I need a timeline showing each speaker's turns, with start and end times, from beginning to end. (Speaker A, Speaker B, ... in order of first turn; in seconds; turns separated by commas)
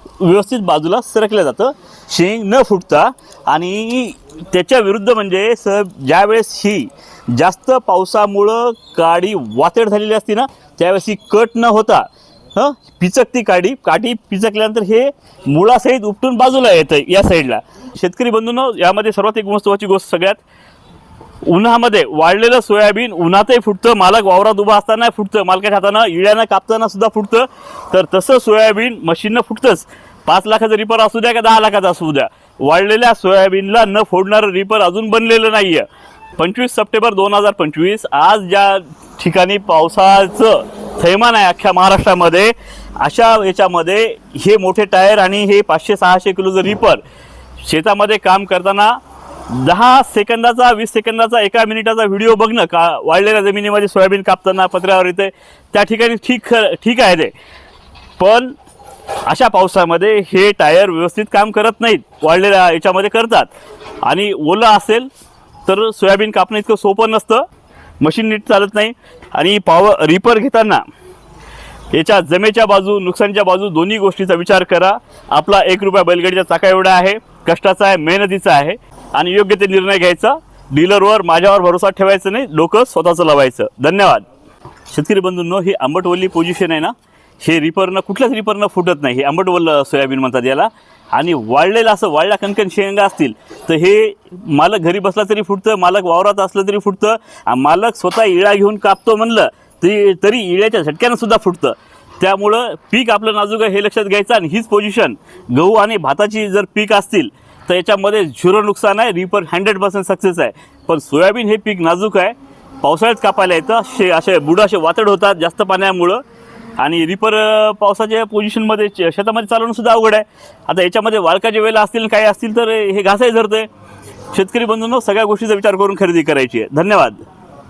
Speaker A: 0.2-20.4, Speaker A: 21.4-35.9, Speaker A: 36.4-47.0, Speaker A: 47.6-57.3, Speaker A: 58.2-58.5, Speaker A: 59.2-63.5, Speaker A: 64.0-65.1, Speaker A: 65.7-67.4, Speaker A: 68.0-70.8, Speaker A: 71.9-84.2, Speaker A: 84.9-116.2, Speaker A: 116.8-123.7, Speaker A: 124.3-127.2